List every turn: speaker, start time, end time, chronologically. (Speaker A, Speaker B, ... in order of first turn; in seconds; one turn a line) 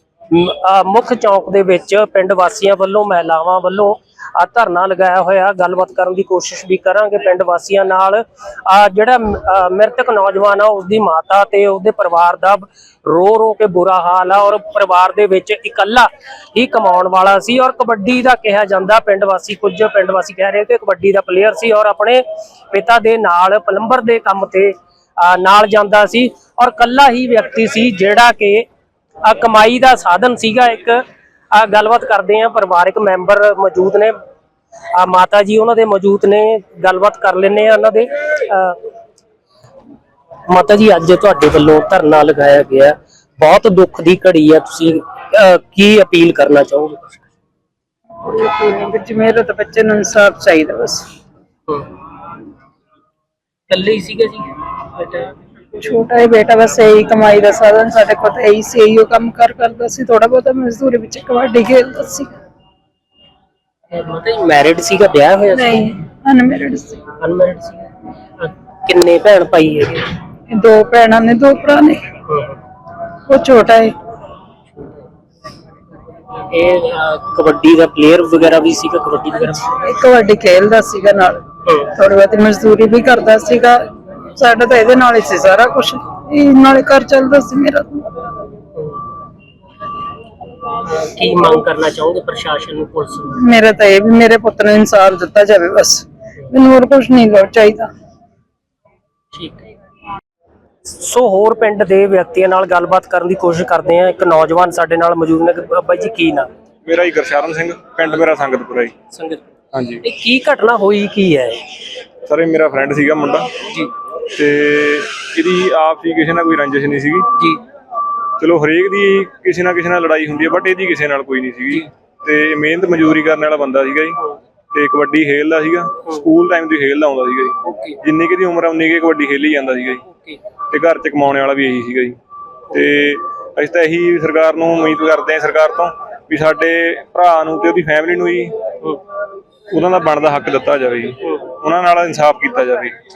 Speaker A: 0.3-28.7
Speaker A: 29.2-34.2
Speaker A: 34.9-38.8
Speaker A: 40.5-47.2
Speaker B: 48.2-51.0
Speaker A: 53.7-55.3
Speaker B: 55.7-62.3
Speaker A: 63.9-65.9
Speaker B: 65.5-67.0
Speaker A: 67.1-70.1
Speaker B: 70.5-72.1
Speaker A: 72.3-72.6
Speaker B: 73.3-73.9
Speaker A: 76.4-79.8
Speaker B: 79.8-81.4
Speaker B: 82.0-88.3
Speaker A: 90.8-93.4
Speaker B: 93.4-97.9
Speaker A: 99.3-99.7
Speaker A: 100.8-106.5
Speaker C: 106.8-108.9
Speaker A: 109.1-109.4
Speaker C: 109.7-110.0
Speaker A: 110.0-111.6
Speaker C: 112.2-113.7
Speaker C: 114.3-117.3
Speaker C: 118.4-124.2
Speaker C: 124.7-130.0
Speaker A: 127.6-128.0
Speaker C: 130.7-132.2
Speaker C: 132.7-138.5
Speaker C: 139.7-142.9